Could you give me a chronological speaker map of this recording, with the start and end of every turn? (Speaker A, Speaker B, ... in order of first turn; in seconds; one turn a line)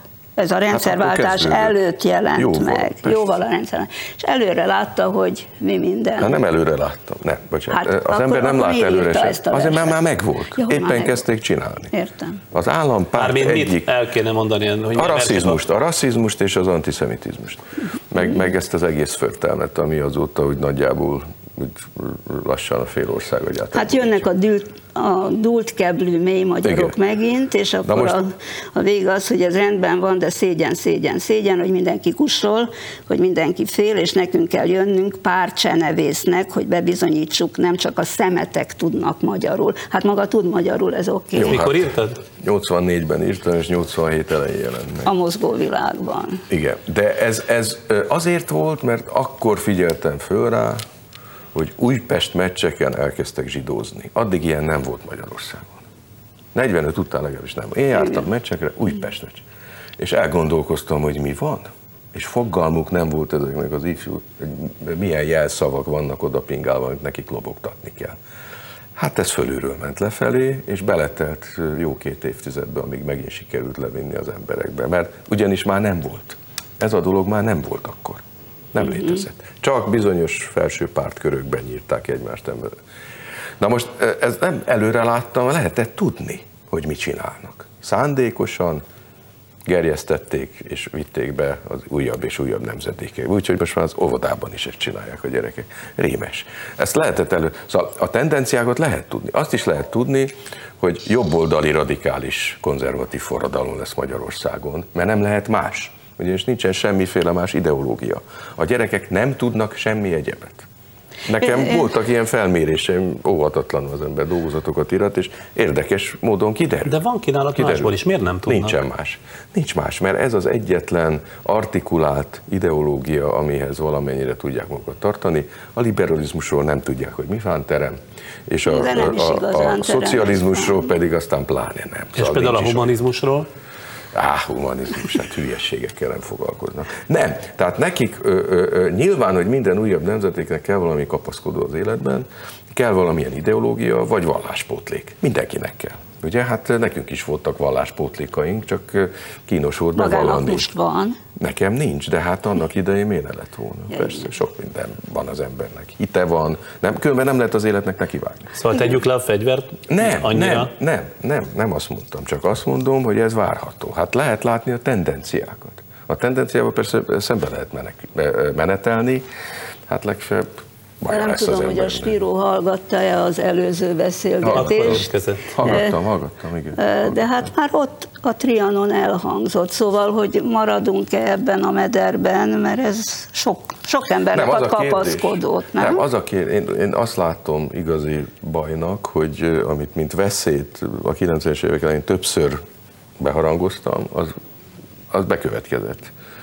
Speaker A: 0.4-6.3
Speaker B: 0.7-1.8
Speaker B: 2.4-3.2
Speaker B: 6.2-11.9
Speaker A: 7.7-10.0
Speaker A: 10.6-11.2
Speaker A: 11.9-12.4
Speaker B: 12.5-13.9
Speaker C: 13.2-15.6
Speaker B: 14.9-24.3
Speaker A: 23.7-41.6
Speaker B: 26.6-26.9
Speaker B: 27.8-28.2
Speaker B: 41.4-45.1
Speaker C: 41.4-42.2
Speaker A: 45.1-46.5
Speaker B: 46.5-50.8
Speaker B: 51.5-55.8
Speaker B: 56.5-59.4
Speaker B: 60.0-68.2
Speaker B: 69.0-82.7
Speaker B: 83.6-88.8
Speaker B: 89.7-110.7
Speaker B: 111.3-117.0
Speaker A: 111.5-111.8
Speaker C: 116.9-118.8
Speaker B: 117.6-128.0
Speaker B: 128.5-132.9
Speaker A: 128.7-130.9
Speaker C: 132.2-133.5
Speaker B: 134.1-150.7
Speaker A: 150.0-151.2
Speaker B: 151.4-158.6
Speaker C: 158.6-160.7
Speaker B: 159.9-169.3
Speaker B: 169.9-172.2
Speaker A: 171.1-175.1
Speaker B: 174.4-177.4
Speaker C: 174.5-175.8
Speaker A: 175.6-176.0
Speaker A: 176.8-186.0
Speaker B: 184.3-192.6
Speaker B: 193.2-194.3
Speaker B: 195.1-196.1